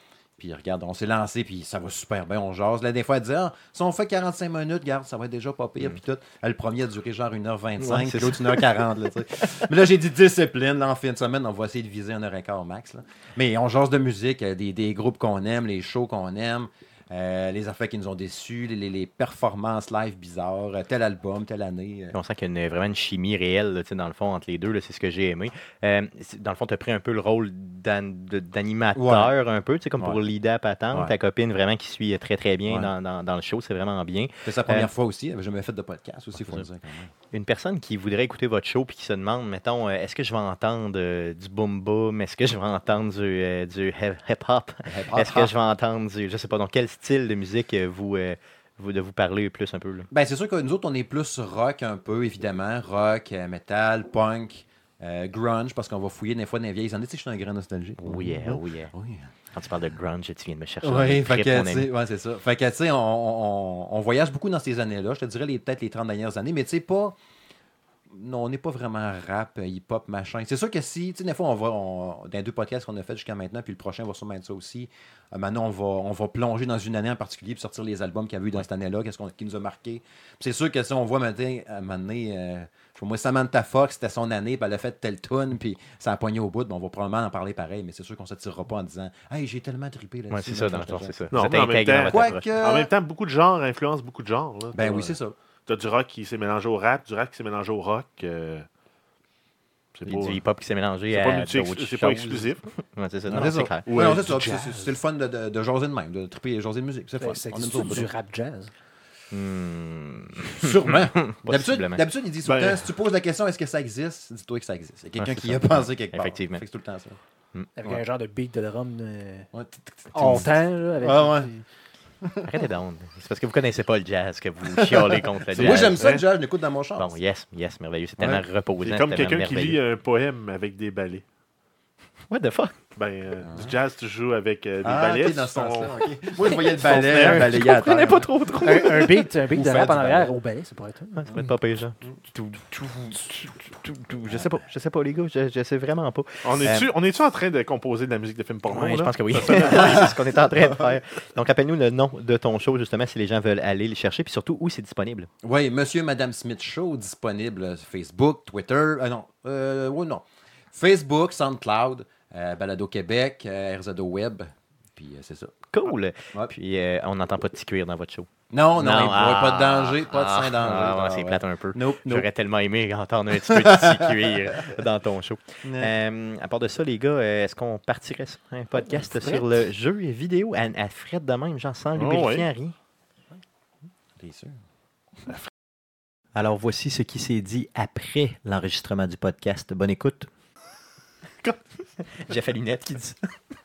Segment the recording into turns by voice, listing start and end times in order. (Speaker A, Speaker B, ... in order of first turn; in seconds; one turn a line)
Speaker A: 0.4-22.1
Speaker B: 7.8-8.8
Speaker B: 22.1-34.9
Speaker A: 28.9-29.3
Speaker A: 32.7-32.9
Speaker A: 34.4-37.1
Speaker B: 36.4-36.6
Speaker B: 37.3-50.1
Speaker A: 44.9-45.5
Speaker A: 50.1-59.3
Speaker B: 58.0-58.9
Speaker B: 59.5-61.9
Speaker A: 60.8-67.2
Speaker A: 68.1-91.2
Speaker B: 90.3-92.5
Speaker C: 91.3-98.7
Speaker A: 92.0-92.9
Speaker A: 94.7-95.3
Speaker C: 99.9-100.4
Speaker B: 100.1-103.9
Speaker C: 101.1-102.6
Speaker A: 103.3-108.1
Speaker C: 103.4-104.3
Speaker D: 104.2-104.9
Speaker D: 107.2-108.7
Speaker B: 109.3-112.0
Speaker A: 110.5-117.2
Speaker C: 112.4-112.9
Speaker B: 115.2-116.6
Speaker B: 117.5-118.0
Speaker D: 117.8-119.5
Speaker A: 119.5-121.5
Speaker D: 120.1-121.6
Speaker B: 122.4-126.0
Speaker A: 124.8-127.1
Speaker C: 125.5-126.2
Speaker B: 127.0-129.8
Speaker A: 128.2-128.4
Speaker C: 128.8-131.2
Speaker B: 132.3-132.7
Speaker C: 132.9-137.4
Speaker A: 133.4-133.8
Speaker A: 134.8-138.3
Speaker B: 136.5-140.2
Speaker D: 138.6-141.3
Speaker B: 141.1-146.8
Speaker C: 146.4-150.0
Speaker A: 146.6-146.9
Speaker B: 148.7-155.3
Speaker A: 149.7-150.1
Speaker A: 155.4-165.6
Speaker B: 165.7-182.7
Speaker A: 168.5-172.3
Speaker A: 173.5-174.1
Speaker A: 175.6-175.9
Speaker C: 181.9-182.5
Speaker A: 184.2-184.6
Speaker B: 186.3-190.3
Speaker B: 191.4-193.2